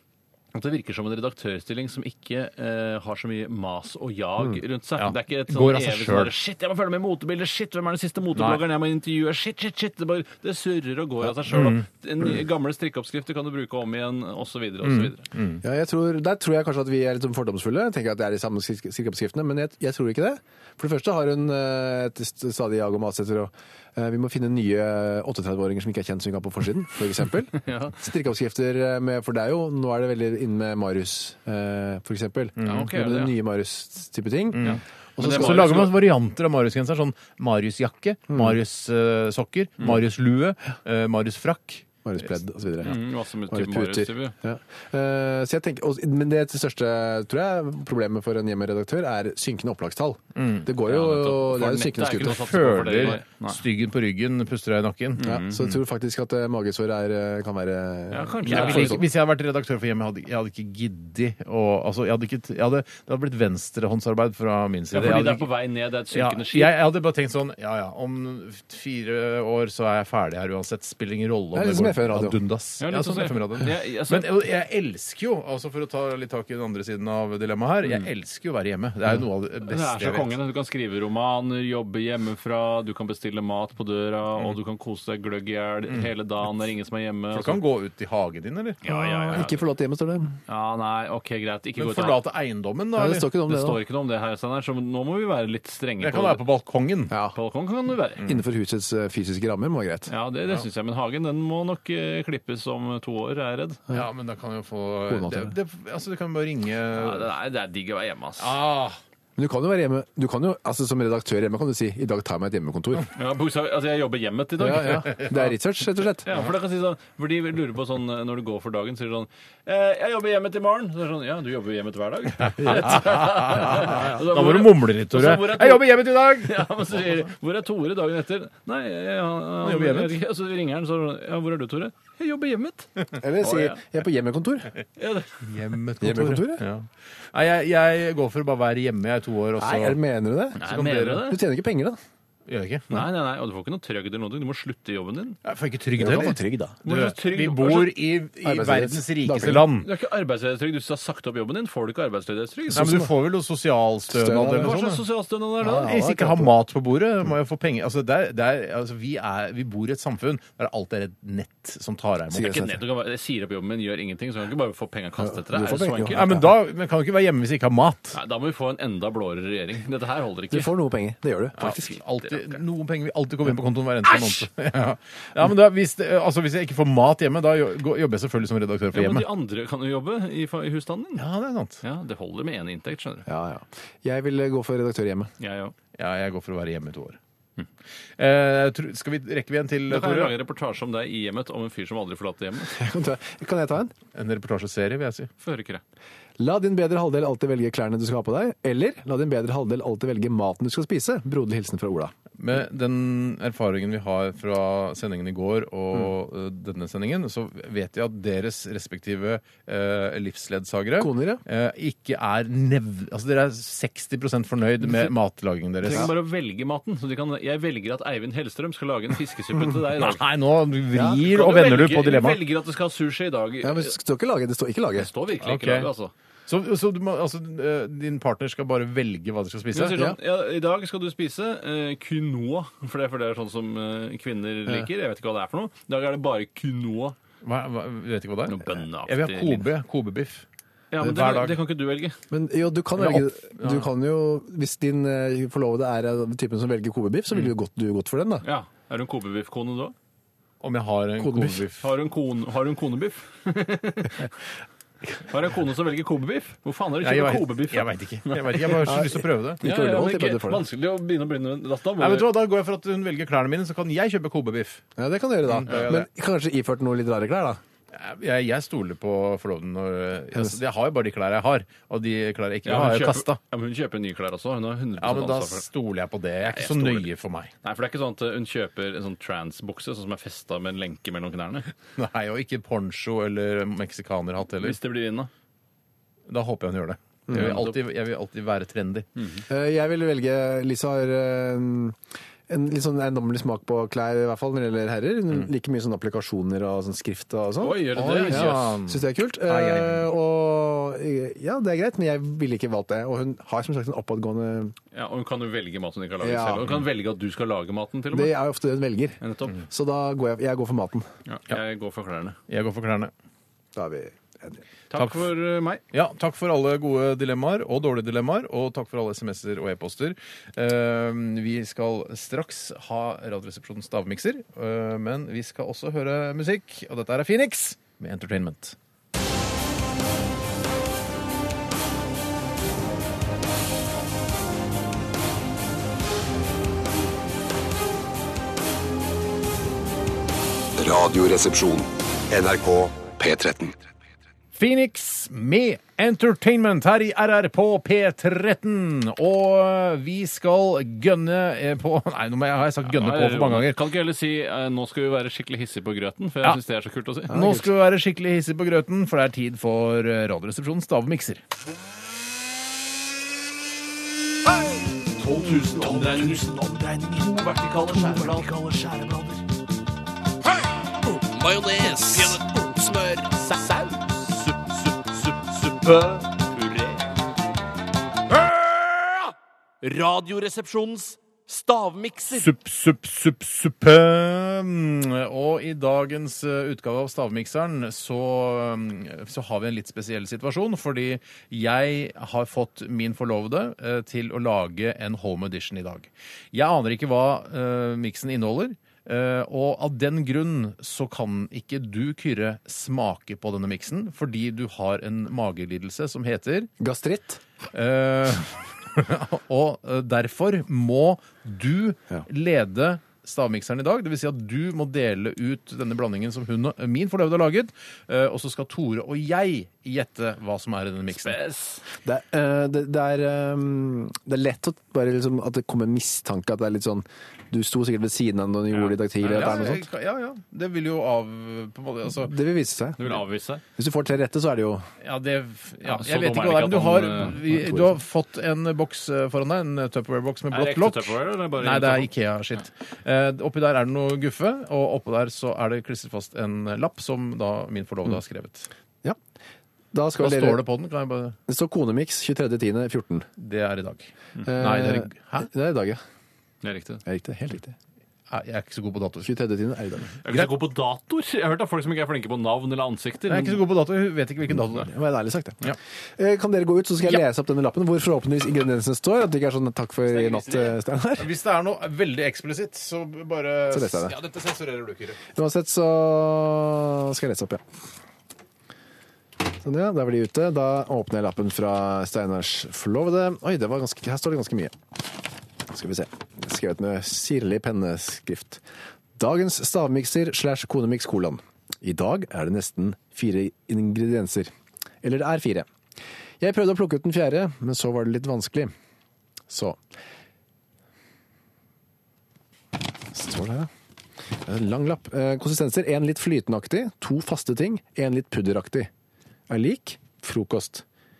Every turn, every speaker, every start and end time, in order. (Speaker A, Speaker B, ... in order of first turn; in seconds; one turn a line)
Speaker A: 0.5-15.2
Speaker B: 5.0-6.3
Speaker B: 8.3-8.6
Speaker B: 11.5-11.8
Speaker B: 14.8-15.6
Speaker C: 15.6-35.8
Speaker A: 27.6-28.0
Speaker B: 32.6-32.9
Speaker A: 32.6-33.3
Speaker B: 34.5-41.9
Speaker A: 34.6-35.9
Speaker C: 38.3-38.5
Speaker C: 42.0-52.5
Speaker A: 42.8-44.3
Speaker B: 50.4-50.7
Speaker A: 50.8-53.6
Speaker B: 52.1-55.7
Speaker A: 55.2-55.6
Speaker C: 55.2-59.1
Speaker A: 58.1-59.0
Speaker B: 58.5-65.5
Speaker A: 64.9-66.7
Speaker B: 66.1-80.3
Speaker C: 71.5-72.4
Speaker A: 72.8-74.2
Speaker A: 79.6-87.6
Speaker B: 87.3-89.4
Speaker A: 88.8-89.6
Speaker C: 88.9-90.3
Speaker A: 90.5-92.2
Speaker B: 91.8-93.3
Speaker C: 93.0-93.8
Speaker A: 93.5-96.4
Speaker B: 96.0-97.2
Speaker C: 97.1-97.3
Speaker A: 97.3-98.2
Speaker C: 98.2-100.1
Speaker A: 100.1-103.8
Speaker B: 103.9-107.3
Speaker C: 105.1-105.5
Speaker A: 106.9-108.5
Speaker B: 108.4-109.0
Speaker C: 109.3-113.1
Speaker A: 113.1-115.3
Speaker C: 114.6-116.3
Speaker A: 116.2-133.8
Speaker B: 122.6-127.1
Speaker B: 129.6-130.2
Speaker C: 133.2-134.7
Speaker A: 135.0-135.4
Speaker B: 135.4-140.0
Speaker C: 136.0-136.6
Speaker C: 139.6-142.0
Speaker A: 140.6-141.4
Speaker B: 140.7-141.2
Speaker B: 142.5-143.0
Speaker A: 142.9-145.4
Speaker B: 145.4-149.9
Speaker C: 146.0-146.8
Speaker A: 146.8-148.0
Speaker C: 148.4-149.7
Speaker A: 149.4-153.0
Speaker C: 152.7-153.1
Speaker B: 152.7-155.0
Speaker C: 154.1-154.8
Speaker A: 154.6-155.9
Speaker C: 155.6-156.5
Speaker B: 155.6-162.7
Speaker C: 162.3-162.7
Speaker A: 162.3-166.2
Speaker C: 165.2-166.4
Speaker B: 166.1-168.2
Speaker A: 168.1-170.7
Speaker C: 170.5-171.8
Speaker B: 171.6-179.3
Speaker A: 171.6-172.6
Speaker A: 178.9-181.2
Speaker B: 181.2-181.8
Speaker A: 181.8-183.3
Speaker C: 183.3-185.3
Speaker A: 185.4-185.7
Speaker B: 186.0-187.2
Speaker B: 188.2-190.3
Speaker A: 189.9-192.7
Speaker C: 192.7-193.9
Speaker B: 194.1-195.3
Speaker A: 195.4-195.8
Speaker C: 196.4-202.1
Speaker B: 202.4-216.1
Speaker C: 211.0-211.4
Speaker A: 215.8-220.2
Speaker B: 219.9-222.4
Speaker A: 221.1-223.9
Speaker C: 223.6-225.1
Speaker A: 224.9-226.1
Speaker B: 225.4-225.9
Speaker B: 226.5-230.0
Speaker A: 229.7-237.2
Speaker C: 229.9-230.2
Speaker B: 237.4-240.4
Speaker A: 238.5-239.7
Speaker A: 240.9-242.2
Speaker B: 241.0-241.6
Speaker C: 242.3-248.4
Speaker B: 242.9-243.9
Speaker A: 248.4-249.9
Speaker B: 250.6-251.8
Speaker C: 251.2-251.7
Speaker A: 251.8-254.3
Speaker A: 255.2-258.8
Speaker B: 257.0-259.6
Speaker C: 258.8-260.6
Speaker A: 259.6-262.3
Speaker B: 262.0-264.8
Speaker C: 265.0-267.6
Speaker B: 265.5-266.1
Speaker B: 267.9-273.4
Speaker A: 272.6-275.7
Speaker B: 275.0-277.5
Speaker A: 276.4-277.1
Speaker A: 277.6-281.7
Speaker B: 282.0-284.8
Speaker A: 284.6-285.3
Speaker B: 286.3-289.1
Speaker C: 287.3-287.6
Speaker A: 287.3-287.8
Speaker C: 289.5-304.7
Speaker A: 297.6-298.8
Speaker B: 297.9-300.1
Speaker A: 304.9-308.4
Speaker C: 306.2-306.7
Speaker C: 308.1-311.1
Speaker A: 309.2-309.6
Speaker A: 311.3-312.4
Speaker B: 312.5-313.1
Speaker C: 313.7-314.6
Speaker A: 314.9-315.8
Speaker B: 314.9-315.3
Speaker B: 315.9-328.8
Speaker D: 340.8-343.7
Speaker B: 344.6-353.8
Speaker A: 352.9-357.4
Speaker B: 357.3-361.4
Speaker C: 357.3-357.7
Speaker E: 365.2-369.4
Speaker A: 365.2-366.5
Speaker E: 371.0-377.0
Speaker E: 378.3-382.5
Speaker B: 382.3-406.7
Speaker C: 406.8-407.4
Speaker B: 407.7-421.4
Speaker A: 421.1-421.8
Speaker C: 422.0-429.9
Speaker A: 428.7-429.5
Speaker B: 429.2-432.4
Speaker C: 432.1-433.2
Speaker A: 433.0-433.6
Speaker C: 433.7-434.9
Speaker B: 435.0-448.7
Speaker A: 435.8-437.4
Speaker C: 437.4-438.0
Speaker A: 440.5-442.1
Speaker C: 449.9-450.6
Speaker B: 450.2-451.4
Speaker C: 451.5-453.3
Speaker B: 453.4-455.5
Speaker C: 454.4-456.0
Speaker A: 456.6-457.0
Speaker C: 457.1-457.8
Speaker B: 458.3-459.3
Speaker C: 459.2-460.1
Speaker A: 460.2-463.6
Speaker B: 463.2-464.9
Speaker C: 464.5-471.3
Speaker A: 470.1-470.8
Speaker B: 471.2-475.2
Speaker C: 473.7-474.1
Speaker C: 475.3-477.6
Speaker C: 479.6-484.7
Speaker C: 485.7-488.6
Speaker C: 489.2-494.5
Speaker C: 495.0-495.7
Speaker C: 496.4-498.7
Speaker C: 499.5-499.8
Speaker C: 503.1-503.7
Speaker C: 504.3-508.9
Speaker C: 509.5-510.8